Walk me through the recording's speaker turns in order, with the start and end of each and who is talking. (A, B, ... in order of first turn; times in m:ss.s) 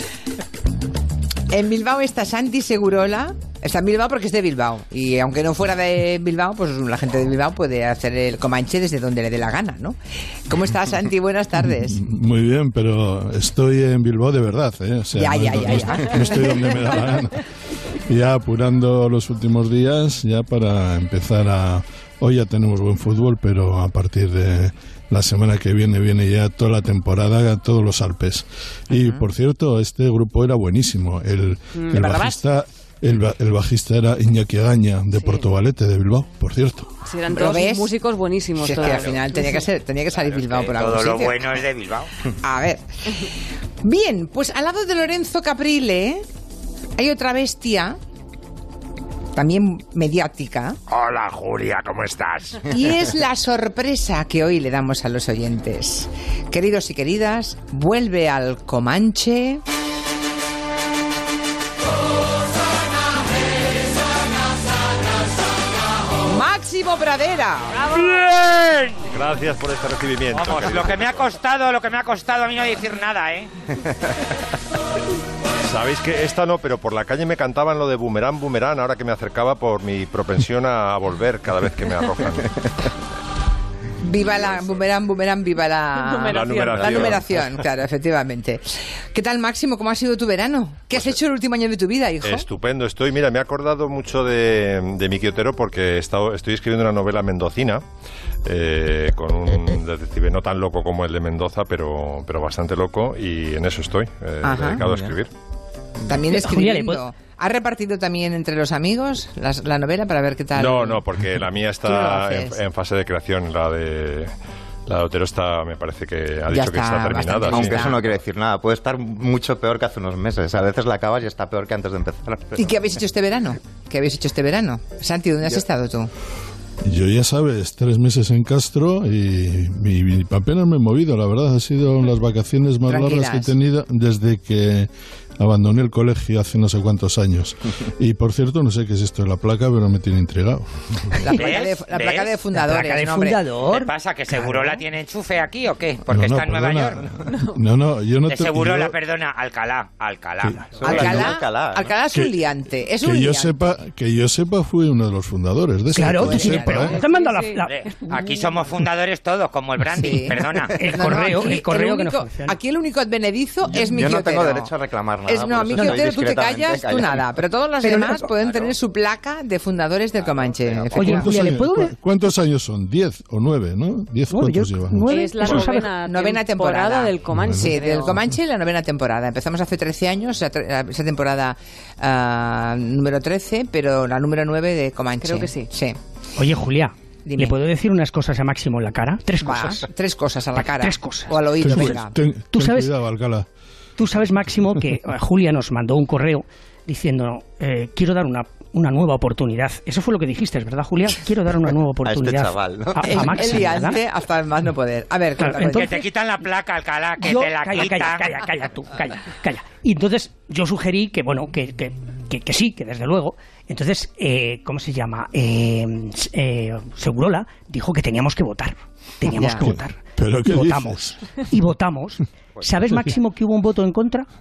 0:01.5-0:12.0 A
0:11.6-0:17.4 B
0:15.1-0:17.1 A
0:18.1-0:36.9 B
0:28.9-0:29.2 A
0:31.7-0:32.2 C
0:31.9-0:32.3 A
0:37.0-0:39.2 C
0:37.3-0:37.9 A
0:38.6-0:41.6 A
0:38.8-0:39.2 D
0:40.2-0:42.1 D
0:42.4-0:43.3 A
0:43.8-0:46.2 A
0:47.0-0:48.0 A
0:49.4-0:50.8 A
0:50.9-0:52.6 D
0:52.7-0:59.6 A
1:06.2-1:07.8 A
1:07.9-1:09.1 D
1:09.1-1:11.3 E
1:10.3-1:13.5 D
1:15.6-1:22.6 E
1:24.0-1:32.5 A
1:26.0-1:27.1 C
1:26.3-1:27.4 E
1:32.2-1:37.8 E
1:38.4-1:45.3 E
1:44.4-1:44.8 A
1:44.8-1:45.1 F
1:46.0-1:51.0 A
1:46.3-1:47.0 G
1:50.5-1:54.3 E
1:51.8-1:52.6 A
1:54.9-1:57.9 E
1:56.5-1:58.0 A
1:57.5-2:02.6 F
2:02.6-2:06.1 A
2:06.8-2:20.7 B
2:12.9-2:13.5 A
2:21.2-2:23.4 A
2:21.3-2:22.3 D
2:22.5-2:24.7 G
2:23.6-2:27.0 D
2:26.1-2:28.9 B
2:28.3-2:31.1 D
2:30.8-2:31.9 F
2:30.8-2:33.6 A
2:32.1-2:32.4 B
2:33.0-2:37.0 B
2:35.9-2:38.5 G
2:36.0-2:36.8 A
2:36.7-2:37.6 C
2:37.6-2:40.9 D
2:40.0-2:44.7 A
2:40.8-2:42.6 G
2:43.7-2:47.4 F
2:45.2-2:51.3 A
2:47.8-2:48.3 G
2:48.4-2:48.7 F
2:50.2-2:51.1 F
2:50.9-2:51.9 G
2:51.0-2:55.2 B
2:54.3-2:55.9 G
2:55.1-2:58.2 C
2:55.5-3:06.0 A
2:57.3-2:58.2 B
3:05.2-3:05.7 C
3:06.4-3:09.8 G
3:07.2-3:07.6 A
3:09.4-3:12.1 A
3:10.6-3:12.0 G
3:11.6-3:13.5 B
3:12.5-3:12.9 G
3:14.0-3:24.0 G
3:22.0-3:23.8 F
3:23.0-3:26.0 A
3:25.4-3:26.0 G
3:25.6-3:28.4 D
3:27.2-3:44.3 G
3:39.3-3:39.7 A
3:39.5-3:41.2 B